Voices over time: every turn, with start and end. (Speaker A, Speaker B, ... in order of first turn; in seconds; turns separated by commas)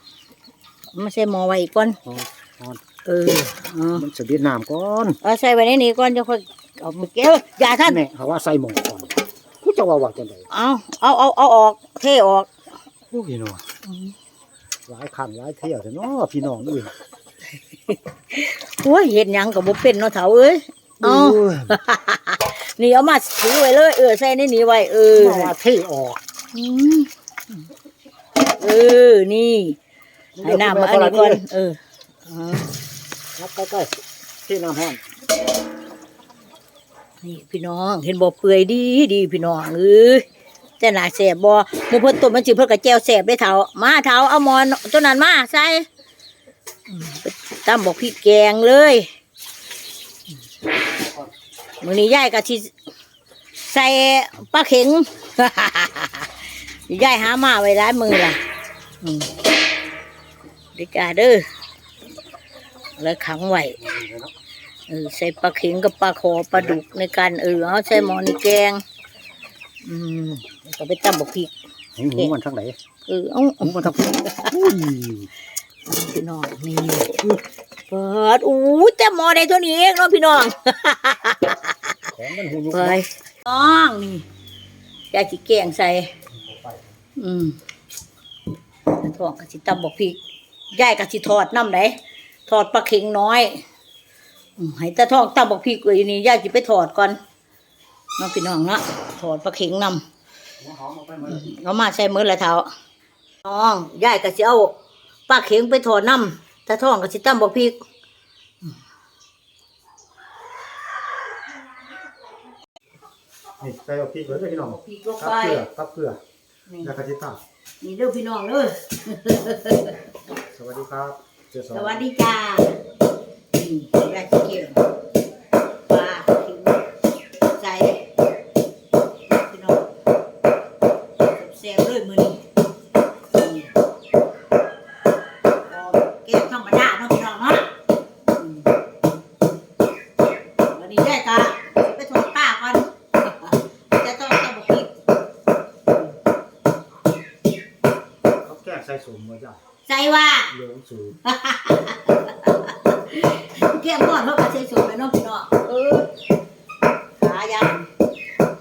Speaker A: 0.9-2.0, Speaker B: 2.0-2.8, Speaker A: 3.1-4.1, Speaker B: 3.9-5.2, Speaker A: 5.2-8.0, Speaker B: 7.9-10.5, Speaker A: 10.5-12.5, Speaker B: 13.1-13.7, Speaker A: 13.9-14.1, Speaker B: 14.9-16.9, Speaker A: 17.9-25.5, Speaker B: 21.0-21.8, Speaker B: 25.1-26.2, Speaker A: 26.5-27.1, Speaker A: 28.6-29.8, Speaker B: 30.4-31.4, Speaker A: 30.4-32.8, Speaker B: 33.4-33.9, Speaker B: 34.5-35.0, Speaker A: 37.2-40.2, Speaker A: 40.8-45.9, Speaker A: 46.9-49.1, Speaker B: 51.0-51.3, Speaker A: 51.8-52.7, Speaker A: 53.7-56.3, Speaker A: 56.9-58.4, Speaker A: 59.0-59.3, Speaker A: 60.8-61.4, Speaker A: 63.0-63.8, Speaker B: 63.8-64.3, Speaker A: 64.9-68.8, Speaker B: 66.5-66.8, Speaker A: 69.8-71.5, Speaker B: 72.0-72.8, Speaker A: 73.1-74.5, Speaker B: 73.6-75.3, Speaker A: 75.9-81.9, Speaker B: 82.1-83.0, Speaker A: 82.7-84.2, Speaker A: 85.1-86.1, Speaker B: 86.3-86.9, Speaker A: 87.2-87.6, Speaker A: 88.9-90.2, Speaker A: 90.7-93.6, Speaker A: 94.6-97.2, Speaker A: 98.2-100.0, Speaker B: 100.6-101.5, Speaker A: 101.3-102.7, Speaker A: 103.4-104.7, Speaker A: 105.3-107.8, Speaker B: 113.6-116.2, Speaker A: 114.3-115.6, Speaker A: 116.7-116.9, Speaker B: 116.8-117.4, Speaker A: 117.8-120.0, Speaker B: 120.5-122.0, Speaker A: 121.7-122.8, Speaker A: 123.5-124.8, Speaker A: 125.9-126.8, Speaker A: 127.5-128.0, Speaker A: 129.3-129.9, Speaker A: 131.2-132.4, Speaker A: 133.3-133.7, Speaker A: 135.7-137.7, Speaker A: 138.4-138.7, Speaker A: 140.7-144.9, Speaker B: 148.4-149.6, Speaker A: 149.9-150.5, Speaker B: 150.5-151.2, Speaker A: 151.2-156.1, Speaker A: 157.2-157.9